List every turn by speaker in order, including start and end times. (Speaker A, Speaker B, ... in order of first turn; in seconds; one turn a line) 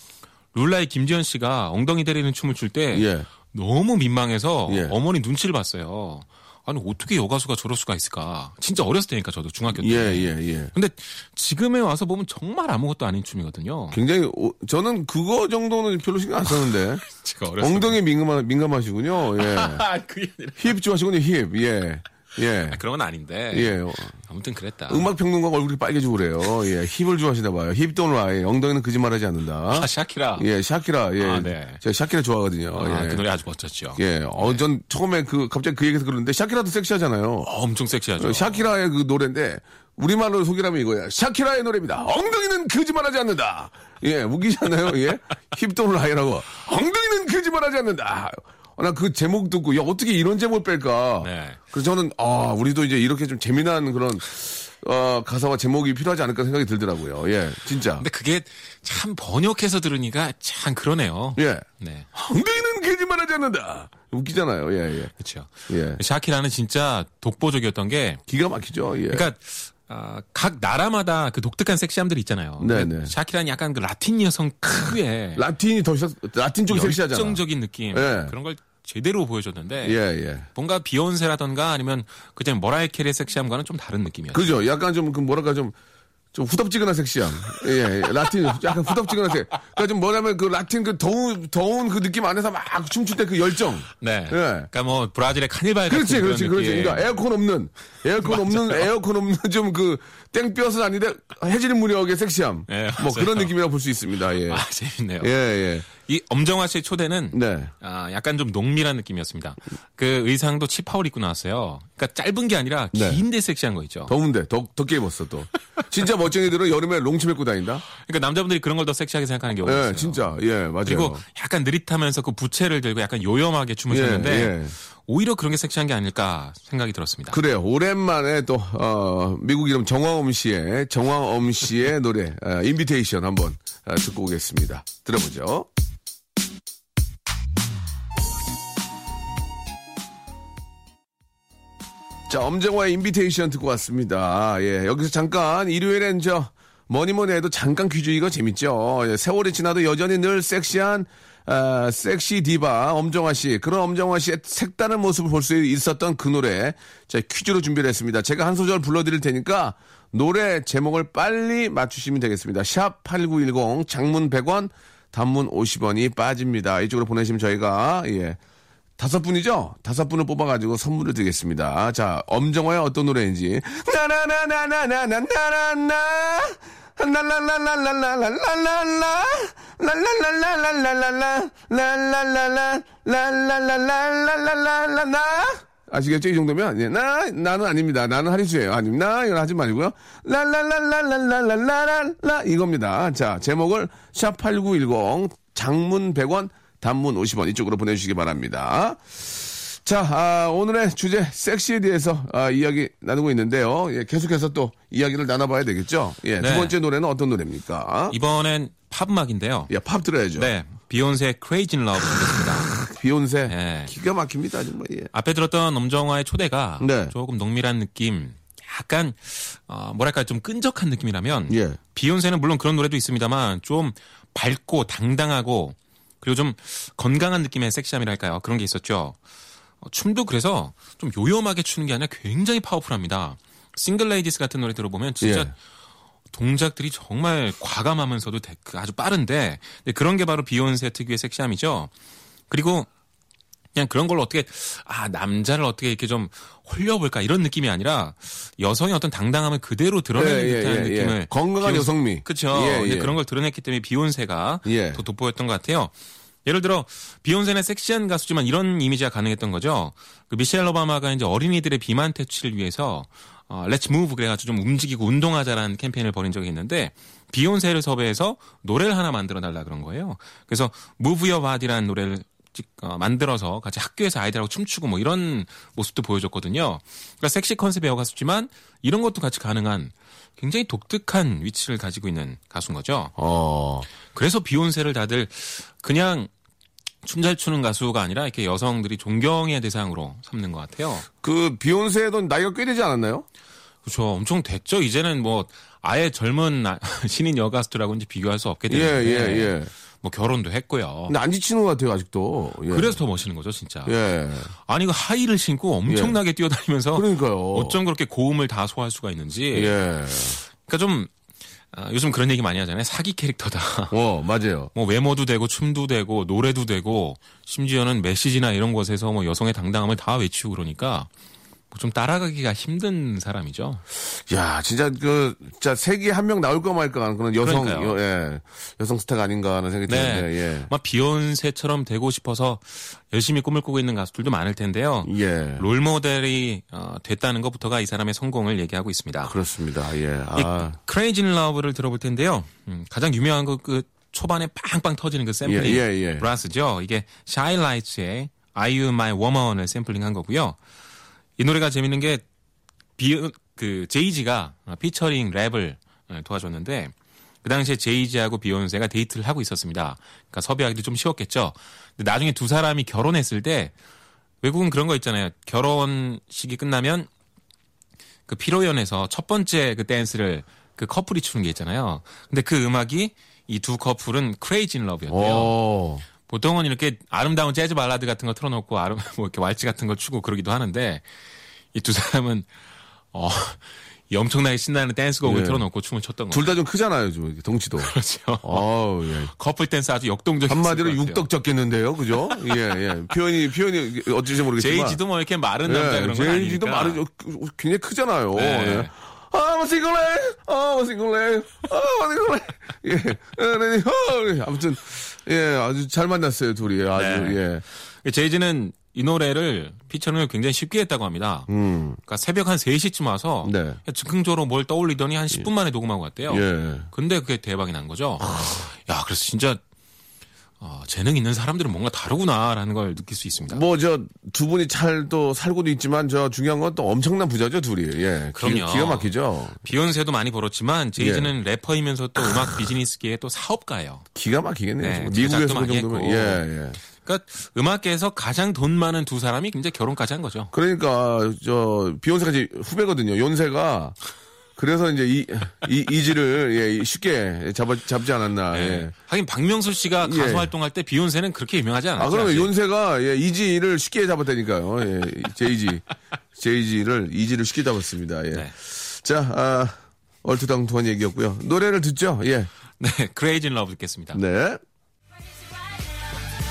Speaker A: 0.5-14.0
Speaker B: 2.9-3.3
Speaker B: 4.7-5.0
Speaker B: 9.8-10.7
Speaker B: 13.9-17.1
Speaker A: 16.5-18.0
Speaker B: 17.6-19.8
Speaker A: 19.3-20.8
Speaker B: 20.6-22.8
Speaker A: 22.7-25.1
Speaker B: 23.5-24.2
Speaker B: 24.9-33.2
Speaker A: 29.7-30.5
Speaker A: 31.2-31.8
Speaker A: 32.8-34.6
Speaker B: 34.0-37.5
Speaker A: 37.5-38.7
Speaker B: 38.2-58.0
Speaker A: 51.2-51.6
Speaker A: 58.0-62.1
Speaker B: 61.4-65.1
Speaker A: 65.2-68.2
Speaker B: 65.7-66.0
Speaker B: 68.3-69.2
Speaker A: 69.1-75.4
Speaker B: 72.6-73.1
Speaker B: 74.9-77.4
Speaker A: 76.7-80.0
Speaker B: 77.9-78.3
Speaker B: 79.8-80.5
Speaker A: 80.5-84.6
Speaker B: 84.3-85.8
Speaker B: 86.3-94.7
Speaker A: 94.0-97.1
Speaker B: 95.9-104.7
Speaker A: 98.2-98.9
Speaker A: 102.7-103.5
Speaker A: 104.5-105.3
Speaker B: 105.2-105.9
Speaker A: 105.9-114.1
Speaker B: 107.3-107.7
Speaker B: 112.9-113.2
Speaker B: 114.1-117.8
Speaker A: 118.0-127.4
Speaker B: 119.6-121.2
Speaker B: 123.9-124.8
Speaker B: 127.3-135.7
Speaker B: 142.3-168.4
Speaker B: 169.0-208.2
Speaker A: 206.4-206.8
Speaker A: 208.1-209.7
Speaker B: 209.7-210.5
Speaker A: 210.4-212.8
Speaker B: 212.7-215.1
Speaker A: 213.5-213.9
Speaker A: 215.1-229.2
Speaker B: 216.8-217.1
Speaker B: 221.5-221.8
Speaker A: 229.8-235.5
Speaker B: 235.2-235.5
Speaker A: 236.3-241.9
Speaker A: 242.5-242.9
Speaker A: 243.8-255.9
Speaker B: 250.2-253.2
Speaker B: 254.7-255.0
Speaker A: 256.4-283.1
Speaker B: 283.2-283.9
Speaker A: 284.1-286.3
Speaker A: 287.0-291.1
Speaker B: 291.1-293.3
Speaker A: 293.8-301.2
Speaker B: 298.7-299.7
Speaker B: 301.1-303.0
Speaker A: 302.7-304.0
Speaker B: 303.9-304.5
Speaker A: 304.7-309.8
Speaker B: 305.9-306.2
Speaker B: 306.9-307.8
Speaker B: 309.5-310.4
Speaker A: 310.4-311.1
Speaker A: 311.7-314.0
Speaker B: 313.9-314.7
Speaker A: 314.7-321.1
Speaker A: 321.7-323.8
Speaker B: 324.1-330.7
Speaker A: 327.4-328.0
Speaker A: 329.9-339.4
Speaker B: 335.0-335.7
Speaker B: 339.2-340.8
Speaker A: 340.4-350.6
Speaker B: 345.4-346.3
Speaker A: 351.4-352.2
Speaker A: 353.0-363.7
Speaker A: 364.4-367.1
Speaker A: 368.3-375.6
Speaker B: 375.1-376.1
Speaker A: 376.2-381.1
Speaker A: 381.7-382.5
Speaker A: 383.1-386.6
Speaker B: 385.2-385.7
Speaker B: 386.3-389.3
Speaker A: 387.8-388.6
Speaker A: 389.3-391.3
Speaker B: 390.5-395.0
Speaker A: 392.3-392.6
Speaker A: 394.6-397.0
Speaker B: 395.6-407.6
Speaker A: 398.4-398.9
Speaker A: 406.9-411.5
Speaker B: 411.5-412.0
Speaker A: 412.1-419.6
Speaker B: 413.4-413.8
Speaker B: 416.3-416.9
Speaker B: 418.2-418.7
Speaker A: 420.6-423.6
Speaker B: 423.5-429.6
Speaker A: 428.3-429.1
Speaker A: 429.6-434.1
Speaker B: 431.0-431.3
Speaker B: 434.2-436.8
Speaker A: 434.8-440.5
Speaker B: 440.5-444.0
Speaker B: 444.6-448.9
Speaker A: 448.5-452.5
Speaker B: 450.0-450.5
Speaker B: 452.0-462.5
Speaker A: 462.8-464.2
Speaker B: 464.1-464.6